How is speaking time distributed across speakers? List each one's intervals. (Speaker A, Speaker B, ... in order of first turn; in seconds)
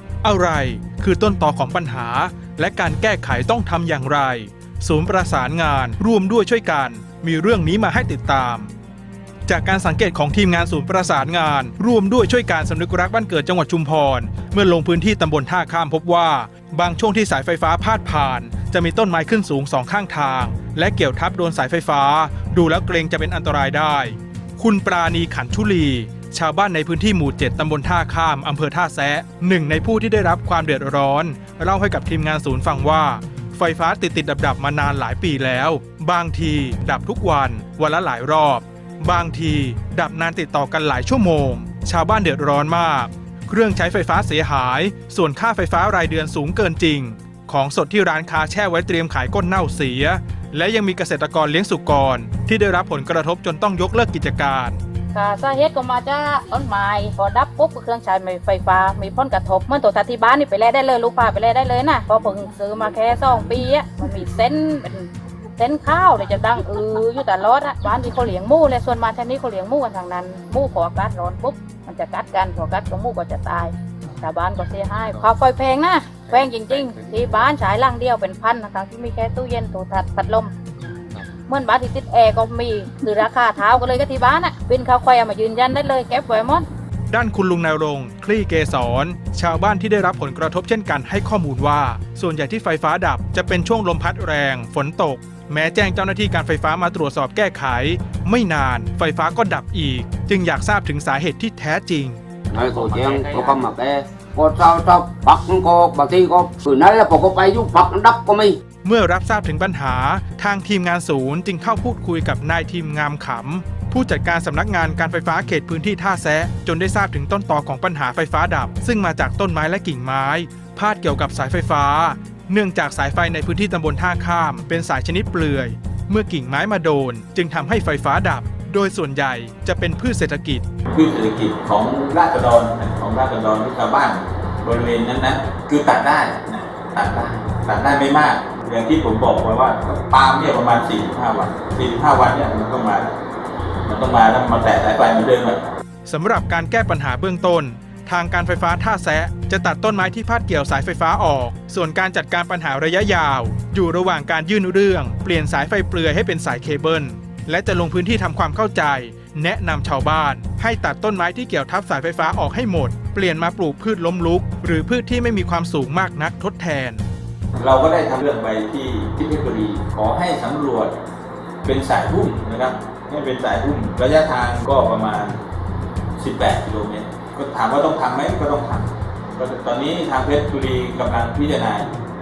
Speaker A: 0.2-8.7, 9.4-54.8, 87.1-102.2, 108.8-130.6, 146.1-167.0
Speaker B: 55.1-80.5, 81.4-86.6
Speaker C: 102.5-108.6
Speaker D: 102.7-103.6, 130.9-143.1, 143.9-145.6, 167.6-170.9, 171.6-175.4, 176.2-181.9